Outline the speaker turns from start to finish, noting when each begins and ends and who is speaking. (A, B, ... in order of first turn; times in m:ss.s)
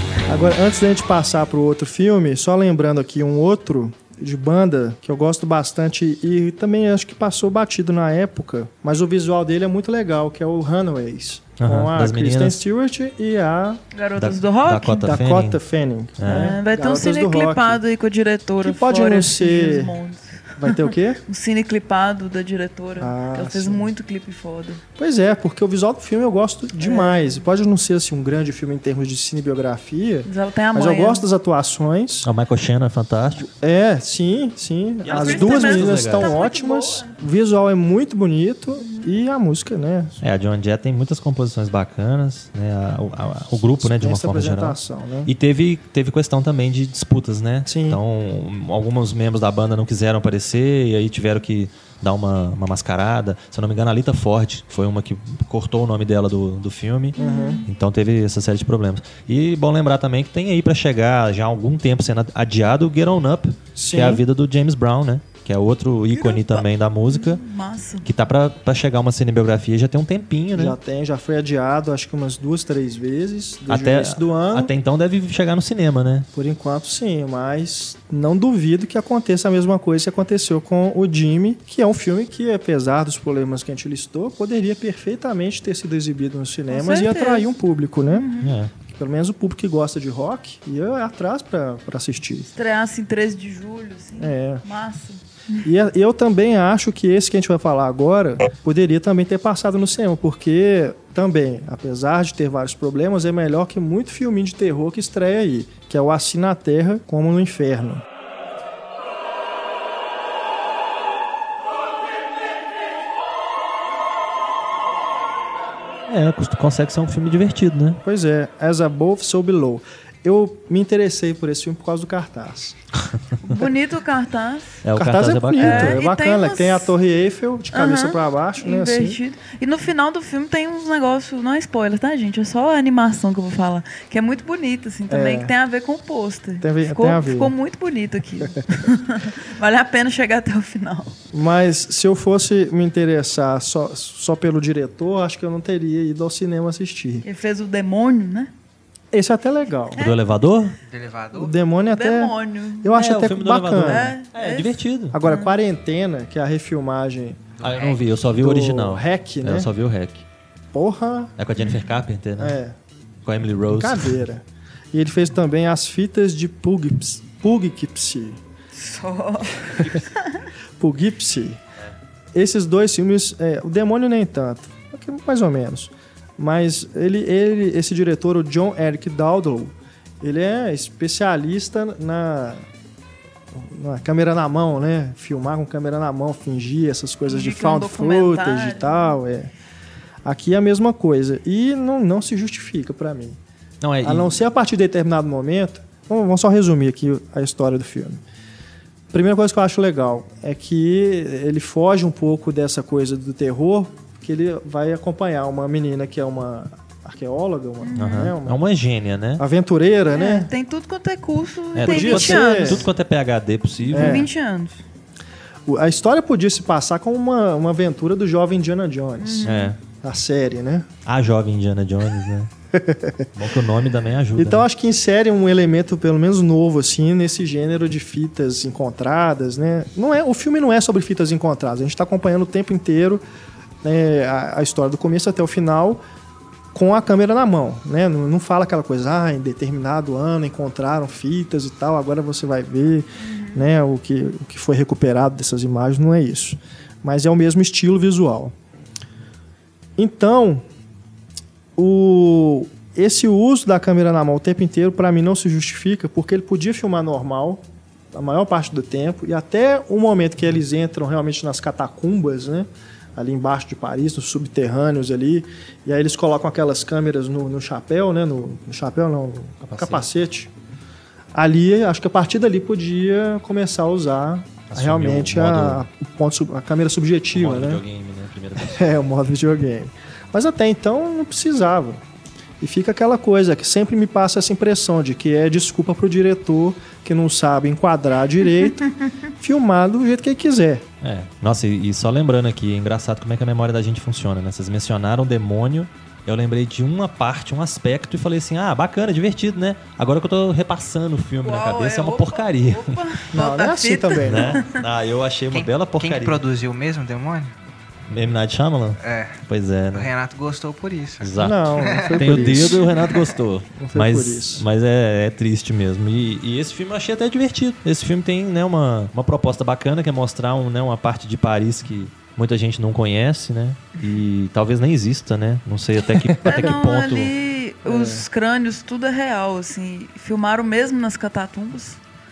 0:00.3-0:13.8 A
0:11.6-0:12.6 B
0:13.9-0:15.1 C
0:14.2-0:15.6 B
0:15.0-0:17.8 A
0:16.2-0:16.6 B
0:16.3-0:24.8 C
0:18.6-0:20.0 A
0:20.6-0:21.2 A
0:23.0-0:23.9 A
0:25.0-0:32.3 A
0:26.8-0:27.4 C
0:30.2-0:31.2 C
0:32.2-0:33.5 B
0:33.4-0:40.2 A
0:35.0-0:36.4 B
0:35.1-0:37.2 C
0:38.8-0:39.1 C
0:40.2-1:07.4 B
0:43.8-0:45.3 A
0:47.7-0:48.0 A
0:57.2-0:57.6 A
0:57.2-0:57.7 C
1:03.8-1:04.2 A
1:06.1-1:08.1 C
1:08.0-1:10.8 B
1:10.6-1:14.7 A
1:13.7-1:16.3 B
1:16.3-1:28.3 A
1:26.7-1:27.5 C
1:28.1-1:28.6 C
1:28.4-1:28.7 B
1:28.9-1:32.5 A
1:32.5-1:35.7 C
1:34.2-1:34.6 A
1:35.6-1:48.0 A
1:56.1-1:58.0 B
1:58.0-2:02.8 A
2:03.4-2:04.7 C
2:04.8-2:06.0 B
2:04.9-2:09.2 A
2:05.6-2:06.9 C
2:07.7-2:21.2 C
2:15.1-2:15.5 A
2:16.6-2:17.5 A
2:21.3-2:27.3 A
2:27.2-2:28.5 C
2:29.1-2:30.0 A
2:30.0-2:30.8 B
2:30.8-2:31.6 D
2:31.3-2:34.1 A
2:31.9-2:32.9 C
2:32.9-2:35.2 B
2:33.8-2:35.5 C
2:35.1-2:37.4 A
2:37.6-2:38.1 D
2:37.6-2:40.2 B
2:38.4-2:39.7 A
2:40.7-2:41.3 A
2:41.4-2:42.6 B
2:42.4-2:42.8 A
2:43.2-2:44.2 B
2:43.7-2:48.4 A
2:48.7-2:50.5 C
2:49.6-2:49.9 A
2:50.8-2:51.6 A
2:52.3-3:02.6 A
3:03.5-3:09.5 A
3:07.3-3:09.2 C
3:10.2-3:13.4 A
3:13.8-3:14.4 B
3:14.0-3:18.2 A
3:19.1-3:28.6 A
3:27.8-3:28.3 C
3:28.0-3:29.4 B
3:29.4-3:30.5 A
3:30.1-3:32.9 C
3:31.8-3:34.3 B
3:31.8-3:32.9 A
3:33.9-3:34.8 C
3:33.9-3:34.3 A
3:35.7-3:40.9 A
3:39.2-3:39.7 C
3:39.4-3:39.8 B
3:41.1-3:42.5 B
3:42.7-3:43.3 A
3:43.4-3:44.6 B
3:44.4-3:53.2 A
3:53.8-3:56.0 A
3:56.7-4:08.5 A
4:03.2-4:03.7 C
4:10.0-4:10.6 A
4:11.8-4:17.6 A
4:18.1-4:30.5 A
4:29.6-4:30.1 B
4:31.4-4:37.8 A
4:34.7-4:35.8 B
4:37.3-4:38.9 B
4:38.6-4:42.0 A
4:42.6-4:50.8 A
4:51.0-5:03.0 B
5:01.4-5:04.8 C
5:03.3-5:04.6 A
5:04.2-5:06.4 B
5:05.5-5:07.5 D
5:08.1-5:10.1 B
5:09.0-5:09.4 D
5:09.9-5:12.4 D
5:11.2-5:27.3 B
5:11.4-5:12.9 A
5:12.6-5:13.1 C
5:13.8-5:14.7 A
5:26.4-5:32.0 C
5:27.8-5:28.2 A